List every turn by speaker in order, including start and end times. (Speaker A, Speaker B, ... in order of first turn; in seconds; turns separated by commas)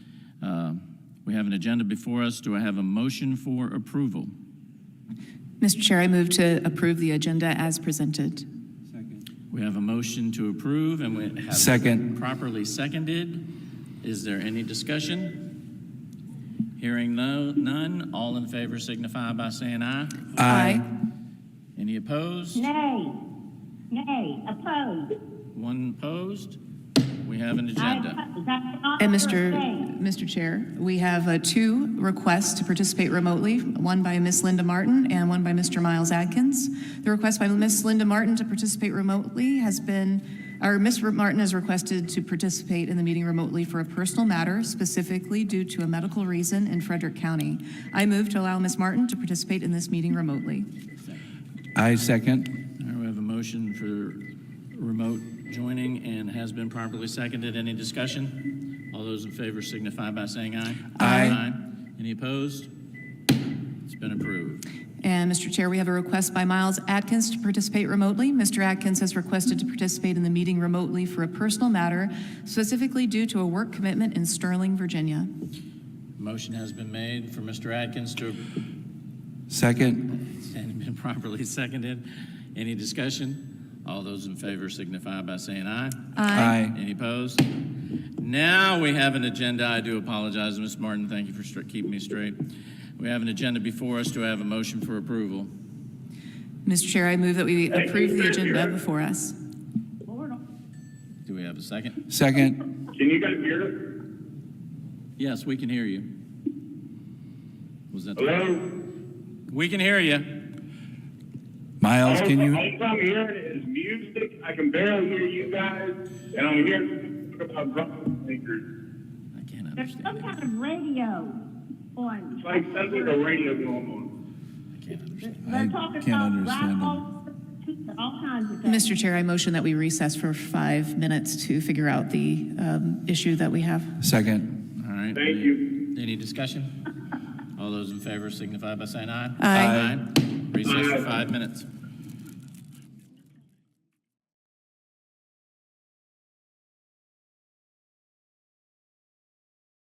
Speaker A: 0.4-4.3, Speaker B: 5.6-8.4, Speaker A: 9.5-13.5, Speaker C: 11.5-12.1, Speaker A: 14.0-15.4, Speaker A: 16.8-20.3, Speaker C: 20.4-20.8, Speaker B: 20.4-20.9, Speaker A: 21.8-22.7, Speaker D: 22.6-23.2, Speaker D: 23.9-25.1, Speaker A: 25.5-26.6, Speaker A: 27.2-28.2, Speaker D: 27.8-29.9, Speaker B: 29.0-50.7, Speaker C: 51.8-52.5, Speaker A: 52.8-62.7, Speaker C: 61.0-61.4, Speaker B: 61.0-61.3, Speaker A: 63.9-64.7, Speaker B: 65.0-75.3, Speaker A: 76.2-78.4, Speaker C: 79.5-80.1, Speaker A: 80.1-86.1, Speaker B: 86.2-86.6, Speaker C: 86.3-86.8, Speaker A: 86.6-87.4, Speaker A: 88.2-92.4, Speaker A: 93.0-95.5, Speaker B: 96.7-99.4, Speaker E: 97.7-98.7, Speaker D: 100.1-100.4, Speaker A: 101.2-102.0, Speaker C: 102.1-102.6, Speaker E: 103.0-103.8, Speaker A: 105.2-106.1, Speaker A: 107.9-108.6, Speaker E: 108.2-108.6, Speaker A: 109.5-110.3, Speaker C: 111.8-112.7, Speaker E: 112.0-118.6, Speaker A: 119.3-120.5, Speaker D: 119.8-121.4, Speaker D: 122.0-122.6, Speaker E: 122.4-124.1, Speaker A: 124.7-125.4, Speaker C: 125.5-127.0, Speaker D: 125.5-127.0, Speaker D: 127.6-128.8, Speaker B: 128.6-134.0, Speaker C: 134.0-134.6, Speaker A: 134.8-136.8, Speaker E: 135.2-135.6, Speaker A: 137.6-141.7, Speaker B: 139.4-139.8, Speaker C: 139.5-140.0